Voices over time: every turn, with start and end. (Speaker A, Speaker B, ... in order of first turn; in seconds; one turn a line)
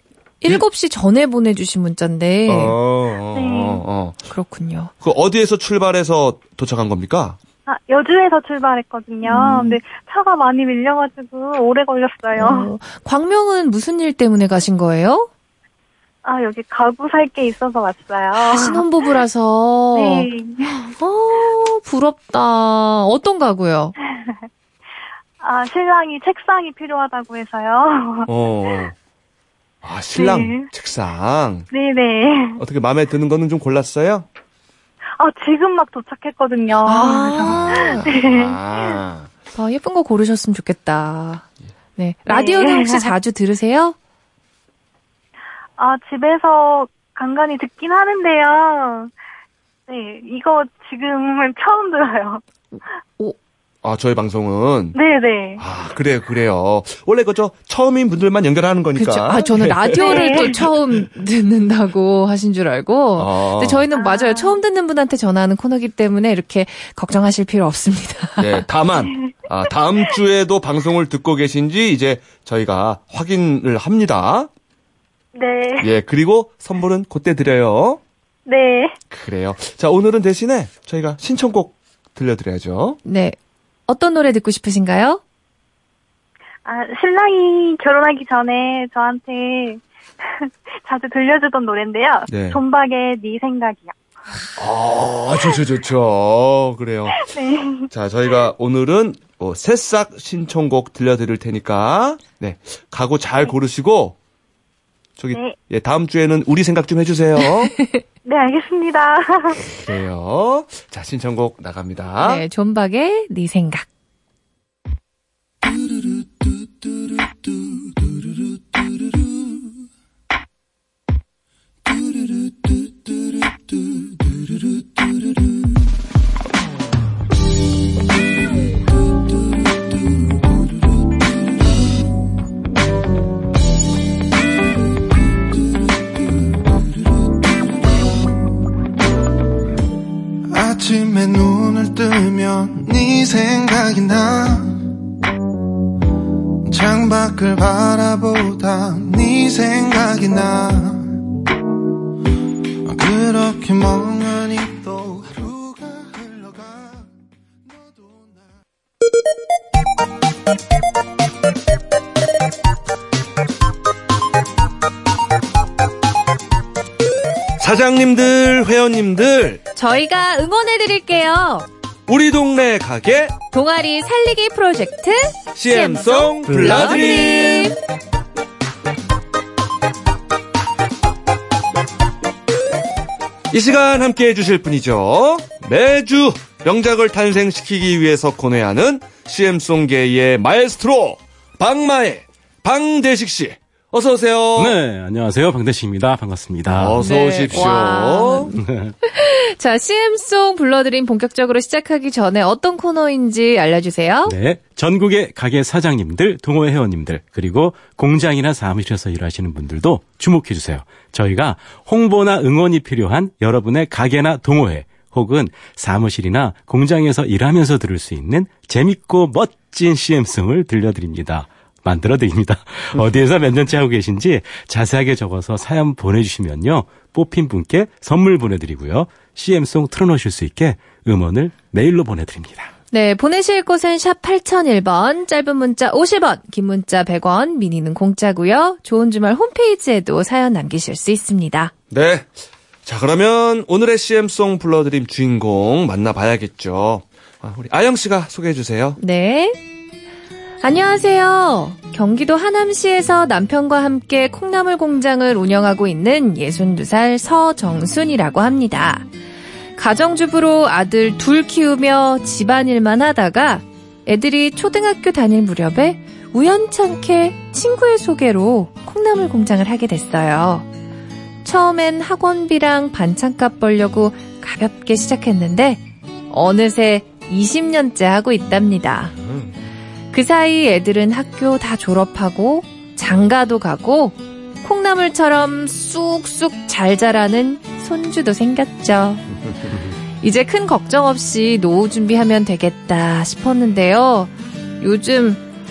Speaker A: 0.4-2.8
Speaker B: 2.5-4.2
Speaker C: 3.3-3.8
Speaker A: 4.3-4.9
Speaker B: 5.0-7.4
Speaker C: 7.7-12.7
Speaker A: 9.2-9.8
Speaker A: 12.3-15.3
Speaker C: 16.2-18.8
Speaker A: 18.4-23.9
Speaker C: 19.9-20.7
Speaker C: 25.4-28.3
Speaker B: 28.3-28.9
Speaker B: 29.8-31.7
Speaker C: 30.1-30.7
Speaker C: 31.7-32.6
Speaker B: 32.6-34.3
Speaker C: 35.2-39.0
Speaker A: 36.8-38.1
Speaker B: 37.4-39.3
Speaker A: 39.5-41.4
Speaker A: 42.0-44.0
Speaker C: 42.3-43.1
Speaker C: 45.8-49.1
Speaker C: 49.9-52.4
Speaker A: 52.7-53.4
Speaker B: 53.8-55.0
Speaker C: 54.9-55.6
Speaker B: 55.6-60.3
Speaker A: 58.9-68.6
Speaker C: 59.9-60.6
Speaker B: 63.2-63.8
Speaker C: 63.9-64.6
Speaker B: 68.4-74.5
Speaker C: 69.0-69.3
Speaker C: 75.3-75.9
Speaker B: 75.8-78.0
Speaker C: 78.5-79.0
Speaker B: 79.1-83.0
Speaker A: 83.0-83.3
Speaker A: 83.9-85.2
Speaker C: 86.6-89.8
Speaker C: 90.4-94.0
Speaker B: 92.3-92.6
Speaker B: 94.5-97.2
Speaker C: 97.1-97.9
Speaker B: 97.9-104.2
Speaker B: 105.2-107.7
Speaker C: 105.3-105.6
Speaker C: 108.2-109.7
Speaker B: 109.8-112.4
Speaker A: 112.2-113.9
Speaker D: 140.5-144.8
Speaker D: 146.6-151.2
Speaker D: 152.8-157.1
Speaker D: 157.7-158.4
Speaker B: 167.6-169.6
Speaker A: 169.7-171.7
Speaker B: 172.1-173.3
Speaker A: 173.5-177.8
Speaker B: 175.6-177.8
Speaker B: 183.5-194.8
Speaker E: 194.6-197.0
Speaker B: 196.7-198.5
Speaker A: 197.0-204.3
Speaker E: 198.6-198.9
Speaker E: 204.2-232.7
Speaker A: 232.9-241.7
Speaker B: 241.9-242.3
Speaker B: 242.8-249.0
Speaker A: 249.0-249.6
Speaker A: 250.6-259.1
Speaker A: 259.8-270.7
Speaker A: 271.4-279.1
Speaker B: 279.2-279.5
Speaker A: 280.1-289.2
Speaker A: 290.2-295.4